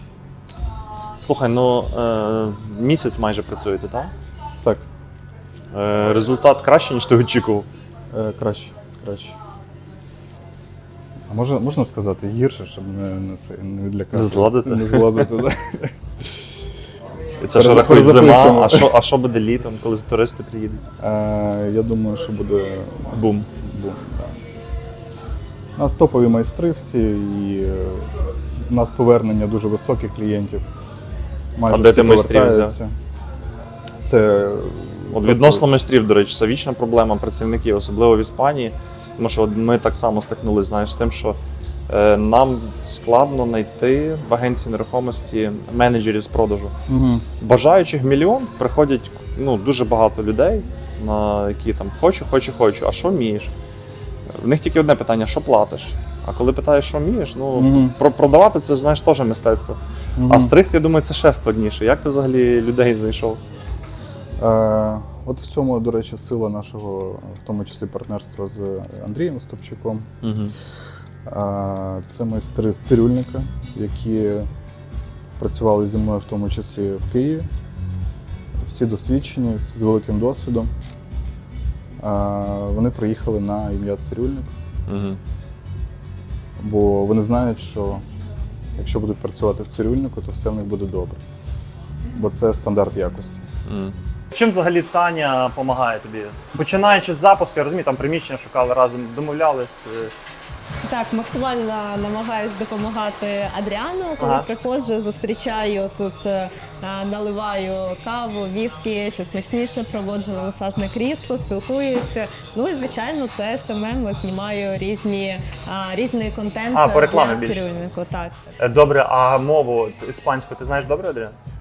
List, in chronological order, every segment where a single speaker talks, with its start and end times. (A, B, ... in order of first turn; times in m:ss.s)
0:01.2-0:04.1 A
0:05.7-0:07.7 A
0:08.1-0:09.4 B
0:11.3-0:16.4 B
0:14.1-0:15.3 A
0:17.4-0:20.8 A
0:17.5-0:18.9 B
0:21.0-0:24.4 B
0:25.8-0:30.6 B
0:31.5-0:32.9 B
0:31.7-0:32.7 A
0:34.0-0:35.6 B
0:35.1-0:41.4 A
0:41.9-0:46.7 A
0:46.9-0:47.2 B
0:47.4-0:53.5 A
0:54.3-1:03.4 A
0:57.5-0:58.0 B
1:00.2-1:00.5 B
1:04.4-1:10.1 B
1:10.2-1:10.5 A
1:11.2-1:14.5 B
1:15.4-1:17.5 B
1:18.6-1:20.7 B
1:22.0-1:24.5 B
1:24.9-1:25.2 A
1:26.6-1:28.0 B
1:28.8-1:31.2 B
1:32.1-1:33.5 B
1:33.6-1:40.1 A
1:40.8-1:58.3 C
1:44.2-1:44.4 A
1:56.7-1:57.6 A
1:58.6-2:01.4 A